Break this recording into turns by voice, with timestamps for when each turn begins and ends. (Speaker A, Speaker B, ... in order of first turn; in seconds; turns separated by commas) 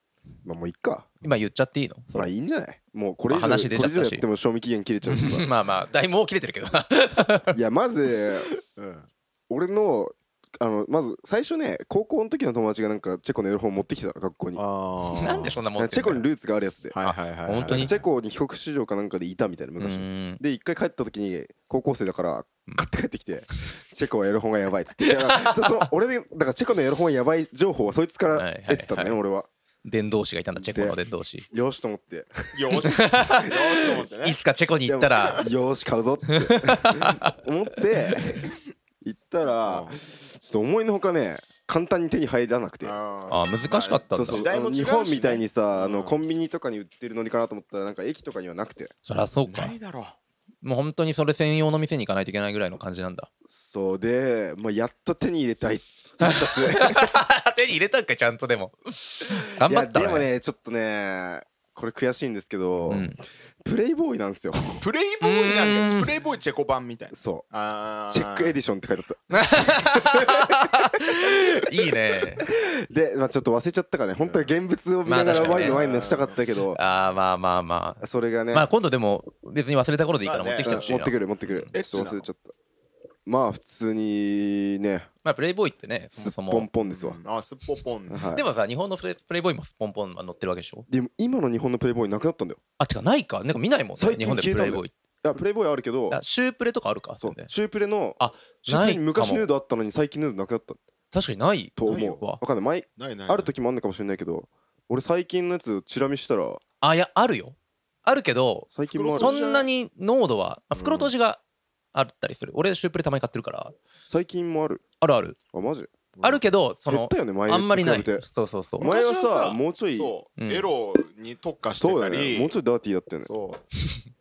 Speaker A: 0.4-1.1, Speaker B: 1.2-2.3, Speaker A: 2.1-5.5, Speaker B: 3.3-4.2, Speaker B: 5.0-7.6, Speaker A: 7.5-8.5, Speaker C: 8.5-9.1, Speaker A: 9.5-14.6, Speaker C: 14.6-15.6, Speaker B: 15.2-16.3, Speaker A: 15.8-17.0, Speaker C: 16.9-18.1, Speaker B: 17.0-17.9, Speaker A: 17.7-29.5, Speaker B: 19.8-20.4, Speaker B: 25.1-25.6, Speaker B: 28.3-29.2, Speaker B: 29.8-31.5, Speaker A: 30.6-31.0, Speaker A: 31.5-34.0, Speaker C: 32.5-34.4, Speaker B: 32.8-35.5, Speaker A: 34.9-43.0, Speaker B: 36.3-37.4, Speaker C: 39.4-40.0, Speaker C: 42.8-46.2, Speaker B: 43.3-44.5, Speaker A: 44.1-48.9, Speaker B: 49.1-49.8, Speaker C: 49.5-50.2, Speaker B: 50.6-53.3, Speaker A: 53.5-57.2, Speaker B: 56.2-60.3, Speaker A: 59.6-64.8, Speaker B: 62.9-63.2, Speaker C: 64.8-68.6, Speaker B: 65.2-66.1, Speaker A: 67.1-67.5, Speaker A: 68.1-71.9, Speaker B: 69.3-72.5, Speaker A: 72.4-76.8, Speaker C: 74.2-74.5, Speaker B: 75.1-75.8, Speaker C: 75.3-77.0, Speaker B: 76.7-81.7, Speaker A: 78.0-78.7, Speaker C: 80.2-80.9, Speaker A: 80.6-82.5, Speaker C: 81.7-82.3, Speaker A: 83.3-85.1, Speaker B: 85.2-86.7, Speaker A: 86.2-87.2, Speaker C: 86.9-88.3, Speaker A: 88.1-88.5, Speaker B: 88.3-90.9, Speaker A: 90.9-92.6, Speaker B: 92.8-94.9, Speaker A: 94.0-96.2, Speaker B: 96.1-97.5, Speaker A: 97.2-100.8, Speaker B: 98.2-99.5, Speaker B: 101.1-102.4, Speaker A: 101.8-106.6, Speaker C: 101.9-102.2, Speaker C: 103.0-103.5, Speaker B: 106.8-111.4, Speaker A: 108.7-109.4, Speaker C: 108.9-109.7, Speaker C: 110.8-111.1, Speaker B: 111.9-113.8, Speaker A: 114.1-114.8, Speaker B: 115.0-115.4, Speaker A: 115.5-115.9, Speaker C: 116.2-116.4, Speaker B: 116.2-118.9, Speaker A: 116.9-118.3, Speaker A: 118.8-120.1, Speaker C: 118.8-122.5, Speaker B: 120.4-120.7, Speaker A: 121.7-123.3, Speaker C: 123.2-123.7